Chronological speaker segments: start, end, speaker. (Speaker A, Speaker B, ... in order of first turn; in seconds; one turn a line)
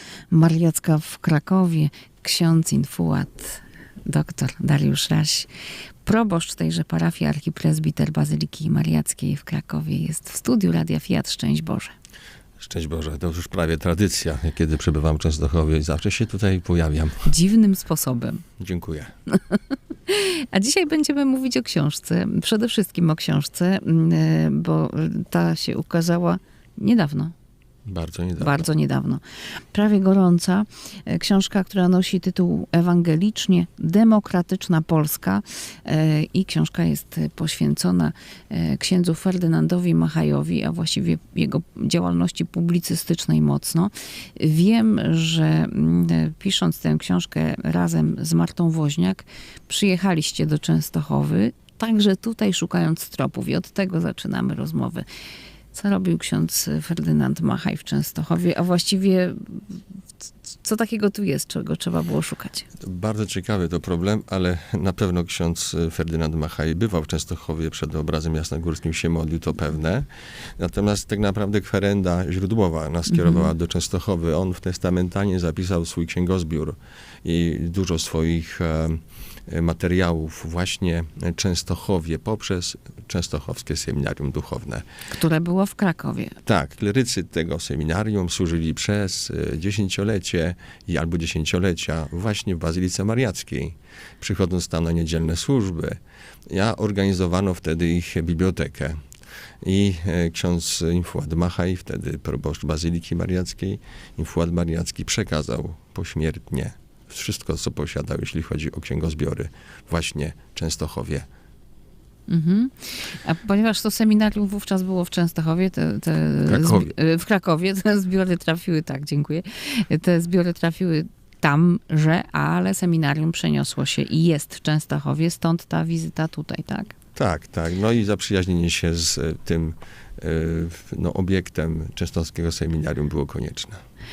Speaker A: 0.3-5.5
Speaker A: 6.0-11.9
Speaker B: 12.6-17.3
Speaker A: 17.2-18.4
Speaker B: 18.6-19.1
Speaker A: 20.1-27.3
Speaker B: 27.8-28.7
Speaker A: 28.4-55.0
Speaker A: 55.7-59.8
Speaker A: 60.5-62.7
Speaker B: 62.8-84.8
Speaker A: 73.1-73.5
Speaker A: 85.1-86.4
Speaker B: 86.4-99.0
Speaker B: 99.6-111.3
Speaker A: 112.3-126.9
Speaker B: 116.5-116.9
Speaker B: 127.1-133.8